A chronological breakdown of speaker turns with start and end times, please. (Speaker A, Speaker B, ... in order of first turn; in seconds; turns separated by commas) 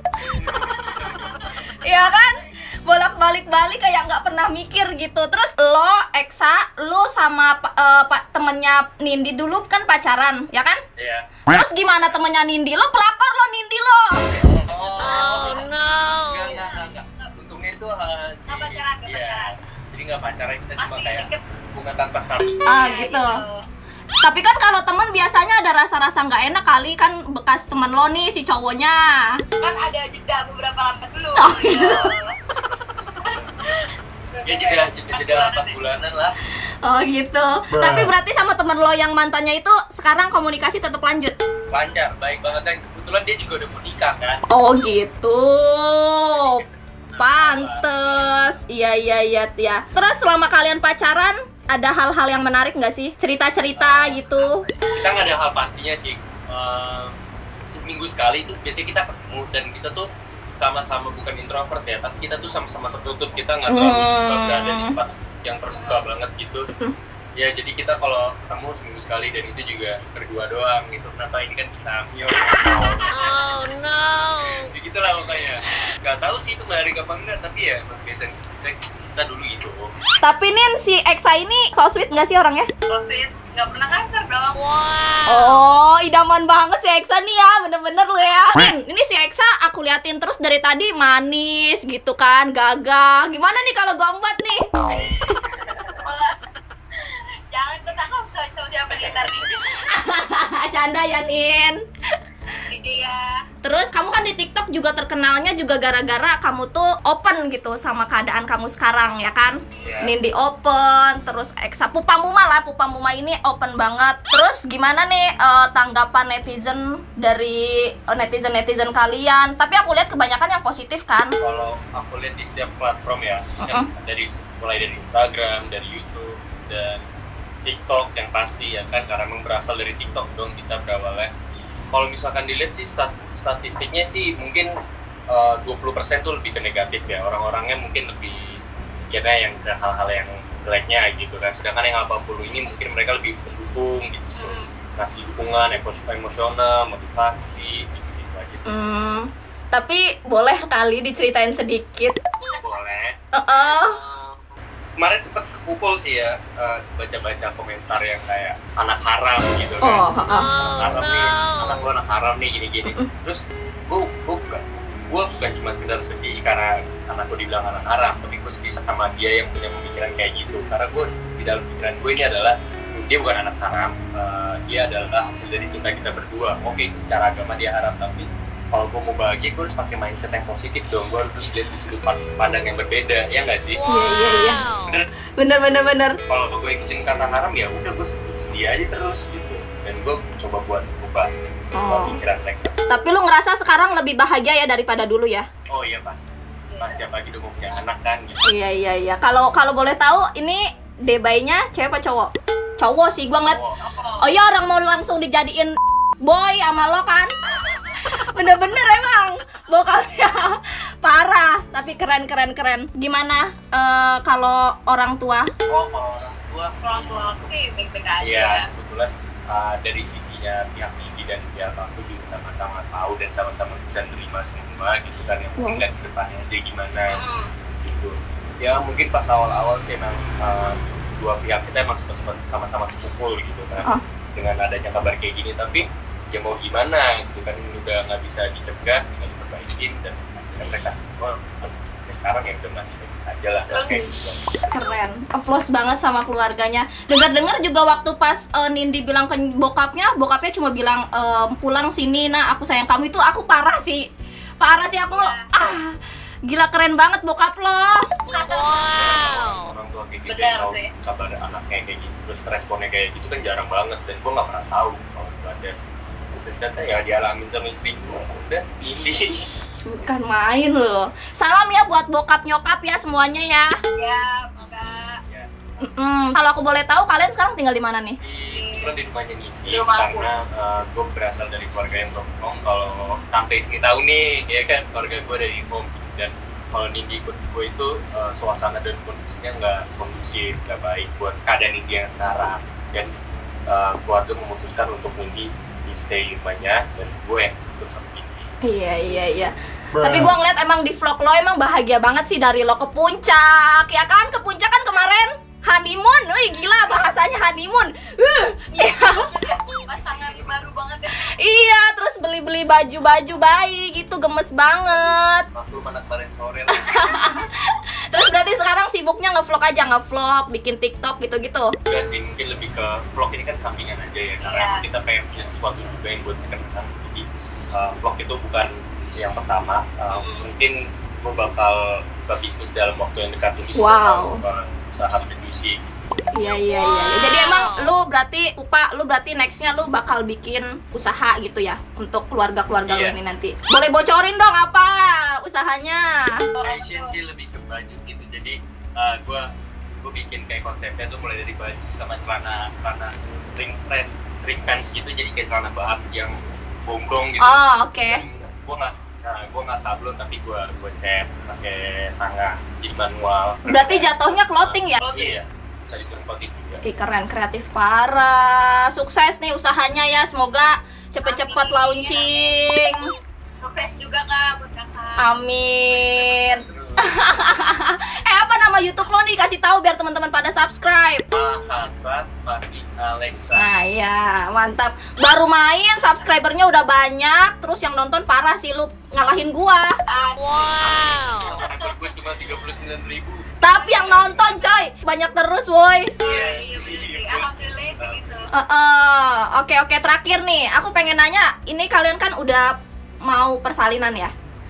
Speaker A: 0.2-1.6, Speaker B: 0.8-1.5, Speaker C: 1.7-10.8, Speaker A: 11.0-11.3, Speaker C: 11.5-14.4, Speaker A: 14.4-22.9, Speaker B: 15.2-15.7, Speaker B: 16.4-17.4, Speaker B: 18.5-19.5, Speaker B: 20.8-21.4, Speaker C: 22.6-23.4, Speaker B: 22.7-23.7, Speaker C: 24.2-29.4, Speaker B: 29.6-32.4, Speaker C: 31.4-32.0, Speaker A: 31.8-33.5, Speaker B: 33.2-35.8, Speaker A: 34.4-36.4, Speaker C: 36.8-41.4, Speaker A: 41.7-44.4, Speaker C: 44.5-46.6, Speaker A: 46.3-48.6, Speaker C: 47.2-54.6, Speaker A: 53.8-57.2, Speaker A: 57.7-60.1, Speaker A: 60.6-66.7, Speaker C: 63.7-65.0, Speaker B: 65.7-66.1, Speaker A: 67.4-73.4, Speaker B: 73.1-73.7, Speaker A: 74.2-79.8, Speaker C: 80.2-82.7, Speaker B: 82.9-84.6, Speaker C: 85.2-94.7, Speaker A: 95.7-96.0, Speaker B: 96.0-96.4, Speaker B: 96.9-100.0, Speaker A: 98.9-99.4, Speaker C: 99.8-101.8, Speaker B: 102.7-103.4, Speaker C: 103.6-121.3, Speaker A: 109.8-110.1, Speaker A: 121.4-127.0, Speaker C: 123.6-123.9, Speaker A: 127.7-131.3, Speaker A: 131.9-134.7, Speaker A: 135.3-138.4, Speaker A: 139.0-148.7, Speaker B: 144.4-144.7, Speaker C: 148.7-152.2, Speaker A: 152.6-154.5, Speaker C: 153.4-154.0, Speaker A: 155.0-183.8, Speaker C: 159.8-160.6, Speaker C: 183.8-184.7, Speaker C: 185.3-186.2, Speaker A: 186.3-192.9, Speaker C: 191.8-192.2, Speaker C: 192.9-195.5, Speaker A: 195.7-196.2, Speaker B: 196.7-197.0, Speaker A: 196.8-198.4, Speaker C: 198.4-203.6, Speaker A: 203.4-203.8, Speaker B: 203.8-204.3, Speaker C: 204.2-207.3, Speaker B: 207.6-207.9, Speaker C: 208.0-215.5, Speaker A: 215.7-217.5, Speaker B: 216.8-218.7, Speaker A: 218.2-227.2, Speaker C: 225.6-225.8, Speaker B: 227.1-227.5, Speaker A: 227.8-245.0, Speaker B: 243.7-244.0, Speaker C: 243.9-254.0, Speaker C: 254.6-258.0, Speaker B: 255.1-255.5, Speaker B: 258.3-258.9, Speaker A: 258.9-265.7, Speaker B: 260.3-260.9, Speaker A: 266.3-269.4, Speaker C: 269.9-273.7, Speaker B: 274.0-275.2, Speaker A: 274.6-275.5, Speaker C: 275.8-278.2, Speaker A: 278.2-293.1, Speaker B: 278.5-278.9, Speaker B: 279.7-280.3, Speaker A: 293.7-298.5, Speaker C: 298.6-309.3, Speaker B: 308.7-311.3, Speaker A: 310.0-310.6, Speaker C: 311.1-315.5, Speaker A: 315.5-317.0, Speaker C: 316.7-321.7, Speaker A: 321.9-335.8, Speaker B: 324.4-324.9, Speaker B: 330.1-330.5, Speaker C: 333.8-334.4, Speaker C: 336.3-346.5, Speaker A: 342.9-343.1, Speaker B: 346.6-347.2, Speaker A: 346.6-366.8, Speaker C: 357.4-358.2, Speaker C: 363.7-365.1, Speaker B: 365.0-365.4, Speaker C: 366.8-373.0, Speaker B: 371.2-372.5, Speaker B: 373.6-375.3, Speaker C: 375.2-381.3, Speaker A: 375.7-377.4, Speaker A: 381.3-383.7, Speaker C: 383.6-389.9, Speaker B: 390.1-391.9, Speaker A: 390.6-393.5, Speaker C: 393.6-396.2, Speaker B: 393.7-394.4, Speaker B: 396.2-398.5, Speaker A: 396.2-398.5, Speaker C: 398.5-402.7, Speaker C: 403.3-404.3